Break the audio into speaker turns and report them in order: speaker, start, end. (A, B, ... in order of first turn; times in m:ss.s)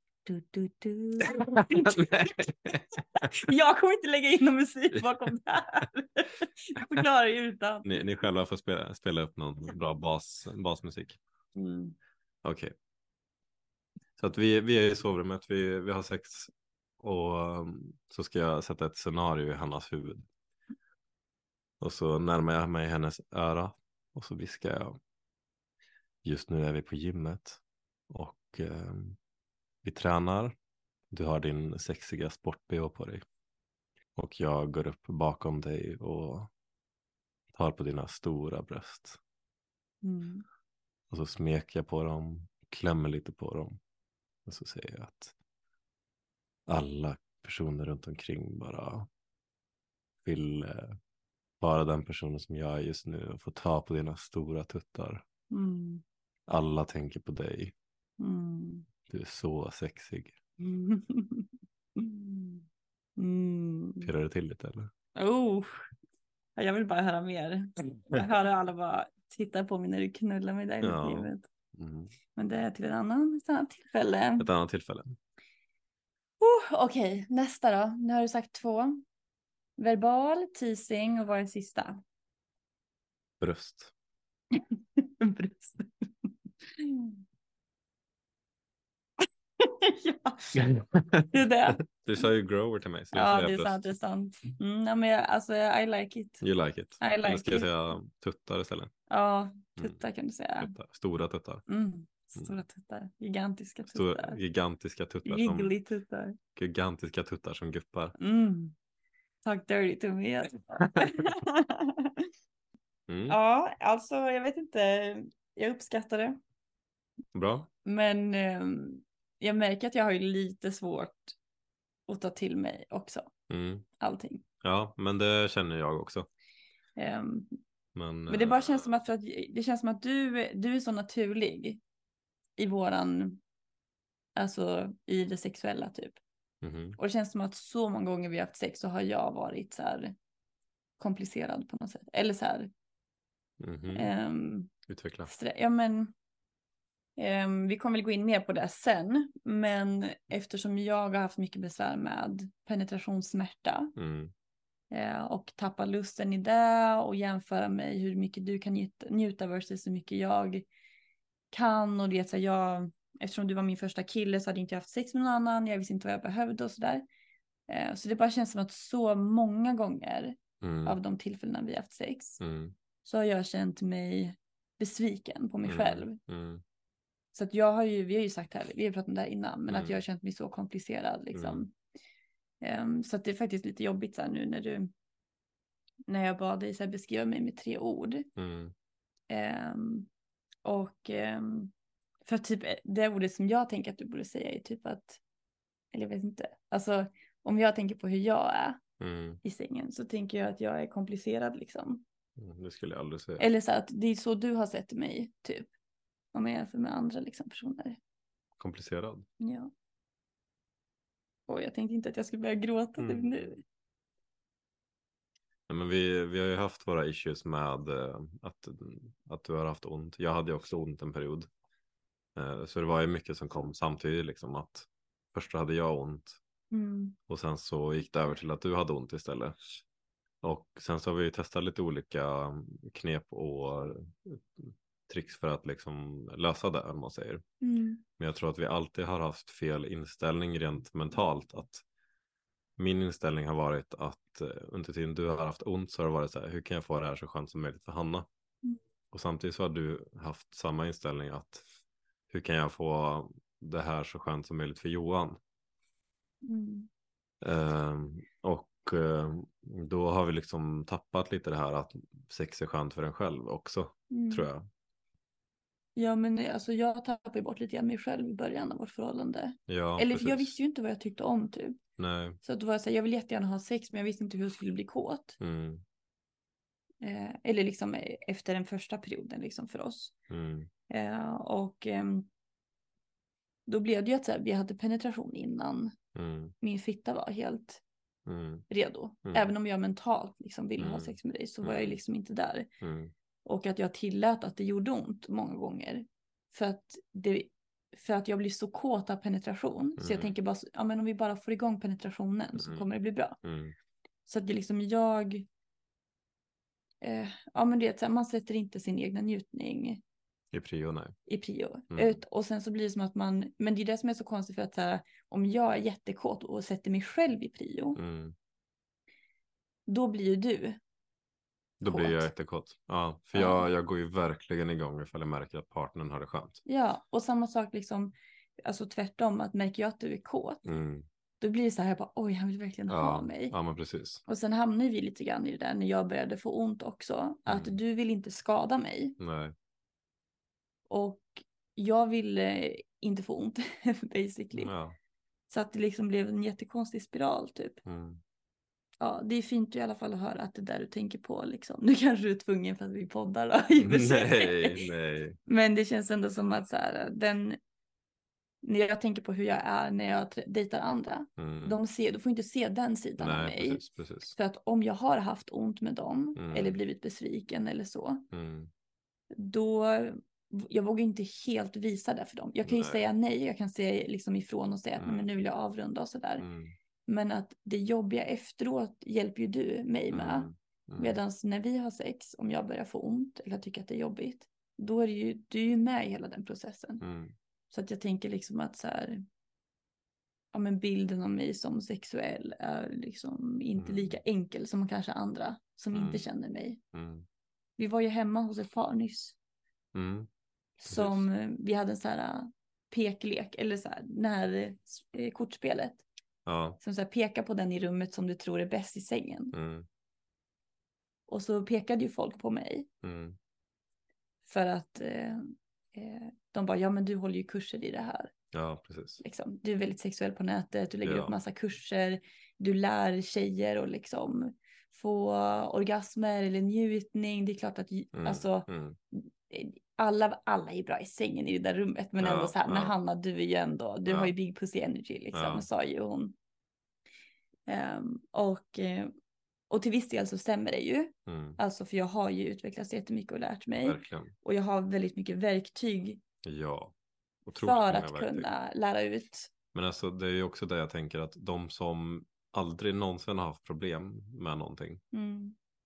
0:00.2-0:02.3 A
0:01.2-0:02.8 B
0:03.2-0:07.8 A
0:07.8-0:11.2 B
0:11.6-0:11.9 A
0:12.4-0:12.7 B
0:14.2-0:20.2 B
0:21.8-0:25.0 B
0:26.2-0:27.6 B
0:28.1-0:29.2 B
0:29.8-0:30.5 B
0:31.1-0:33.2 B
0:34.2-0:36.5 B
0:37.5-0:39.2 B
0:40.0-0:40.4 A
0:41.1-0:43.8 B
0:44.5-0:45.3 B
0:46.7-0:49.1 B
0:50.2-0:51.0 B
0:51.6-0:55.2 B
0:55.5-0:56.0 A
0:56.5-0:57.7 B
0:58.2-0:58.9 A
0:59.1-1:00.3 B
1:00.6-1:02.6 A
1:03.2-1:04.1 A
1:04.0-1:04.9 B
1:05.1-1:05.8 A
1:06.6-1:11.4 A
1:10.8-1:12.1 B
1:12.4-1:14.5 A
1:14.4-1:15.2 B
1:16.4-1:19.0 A
1:19.8-1:22.0 A
1:23.4-1:23.9 B
1:24.5-1:27.1 A
1:29.6-1:30.7 A
1:30.6-1:33.8 B
1:31.3-1:31.8 A
1:33.1-1:36.4 A
1:36.4-1:38.9 B
1:37.0-1:37.7 A
1:39.1-1:40.7 A
1:40.6-1:41.6 B
1:41.7-1:44.4 A
1:43.9-1:45.7 B
1:45.2-1:46.4 A
1:46.6-1:48.1 B
1:48.2-1:48.7 A
1:49.4-1:52.2 A
1:53.1-1:53.4 B
1:53.3-1:56.4 A
1:57.3-1:57.7 B
1:57.8-2:01.3 A
2:02.1-2:03.3 A
2:03.5-2:03.8 B
2:04.0-2:04.4 A
2:04.6-2:06.3 B
2:07.0-2:07.6 A
2:08.0-2:08.8 B
2:08.3-2:11.8 A
2:12.6-2:13.4 A
2:14.4-2:16.2 A
2:16.6-2:17.0 B
2:17.0-2:20.1 A
2:21.0-2:22.7 A
2:23.6-2:24.1 B
2:23.9-2:24.7 A
2:24.9-2:25.3 B
2:25.2-2:26.1 A
2:27.2-2:33.9 A
2:34.0-2:34.3 B
2:34.9-2:40.6 A
2:41.5-2:47.0 A
2:47.7-2:52.4 A
2:50.6-2:51.0 B
2:52.4-2:52.7 B
2:53.0-2:56.2 A
2:55.6-2:56.6 B
2:57.3-3:01.7 A
2:59.7-3:00.0 B
3:01.3-3:01.6 B
3:02.6-3:04.9 A
3:06.1-3:08.3 A
3:08.4-3:08.7 B
3:09.3-3:10.1 A
3:10.6-3:11.7 A
3:12.2-3:15.2 A
3:15.9-3:18.8 A
3:19.0-3:19.4 B
3:19.4-3:22.0 A
3:22.4-3:23.4 B
3:23.4-3:25.7 A
3:26.3-3:28.0 A
3:28.6-3:29.2 B
3:29.4-3:29.7 A
3:31.5-3:33.6 A
3:33.0-3:33.3 B
3:35.7-3:41.5 B
3:42.4-3:46.4 B
3:46.7-3:47.2 A
3:47.3-3:49.6 B
3:50.4-3:57.4 B
3:57.6-3:58.0 A
3:58.2-4:01.8 B
4:02.8-4:08.2 B
4:09.1-4:11.6 B
4:12.3-4:15.4 B
4:16.4-4:16.9 A
4:17.4-4:24.7 B
4:24.1-4:24.5 A
4:26.0-4:31.8 A
4:29.7-4:30.6 B
4:32.0-4:32.4 B
4:32.4-4:35.4 A
4:35.4-4:35.8 B
4:37.0-4:40.1 A
4:40.3-4:40.7 B
4:40.9-4:42.3 A
4:43.7-4:45.9 A
4:46.1-4:46.5 B
4:46.6-4:47.8 A
4:48.3-4:48.6 B
4:48.7-4:52.7 A
4:50.8-4:52.0 B
4:52.8-4:53.1 B
4:53.4-5:03.4 A
5:00.0-5:00.3 B
5:02.6-5:02.8 B
5:03.4-5:03.7 B
5:04.3-5:05.4 A
5:07.0-5:10.0 A
5:10.5-5:11.1 B
5:11.3-5:18.0 A
5:11.9-5:12.2 B
5:18.0-5:18.3 B
5:19.9-5:20.8 A
5:21.8-5:26.6 B
5:21.8-5:22.2 A
5:23.3-5:23.6 A
5:26.6-5:30.6 A
5:30.6-5:31.0 B
5:31.4-5:33.6 A
5:32.9-5:34.2 B
5:34.2-5:39.2 A
5:37.5-5:37.8 B
5:39.2-5:39.5 B
5:40.9-5:44.7 A
5:44.6-5:45.0 B
5:45.5-5:47.8 A
5:47.8-5:48.2 B
5:49.0-5:54.8 A
5:53.8-5:55.4 B
5:55.5-5:57.6 A
5:58.6-6:03.8 A
6:01.4-6:01.8 B
6:03.2-6:04.4 B
6:04.3-6:08.2 A
6:06.4-6:06.8 B
6:08.3-6:08.7 B
6:09.3-6:16.4 A
6:12.6-6:13.0 B
6:15.0-6:15.2 B
6:16.4-6:16.7 B
6:17.1-6:20.5 A
6:20.1-6:21.2 B
6:21.0-6:27.0 A
6:27.0-6:27.3 B
6:27.7-6:29.2 A
6:30.5-6:36.8 A
6:33.8-6:34.2 B
6:35.9-6:36.2 B
6:36.9-6:37.2 B
6:37.8-6:39.3 A
6:39.9-6:40.3 B
6:40.8-6:46.0 A
6:40.8-6:41.3 B
6:46.4-6:46.8 B
6:46.8-6:49.5 A
6:49.5-6:49.8 B
6:51.3-6:52.9 A
6:53.0-6:53.4 B
6:54.4-6:55.4 A
6:55.9-6:58.3 A
6:58.5-6:59.2 B
6:59.2-7:16.3 A
7:01.0-7:01.3 B
7:08.2-7:09.0 B
7:12.2-7:12.9 B
7:14.1-7:14.3 B
7:15.3-7:15.7 B
7:17.7-7:19.1 A
7:19.7-7:26.2 A
7:21.3-7:21.6 B
7:23.8-7:24.3 B
7:26.4-7:26.9 B
7:27.4-7:28.5 B
7:27.5-7:29.5 A
7:29.7-7:35.0 B
7:35.1-7:35.5 A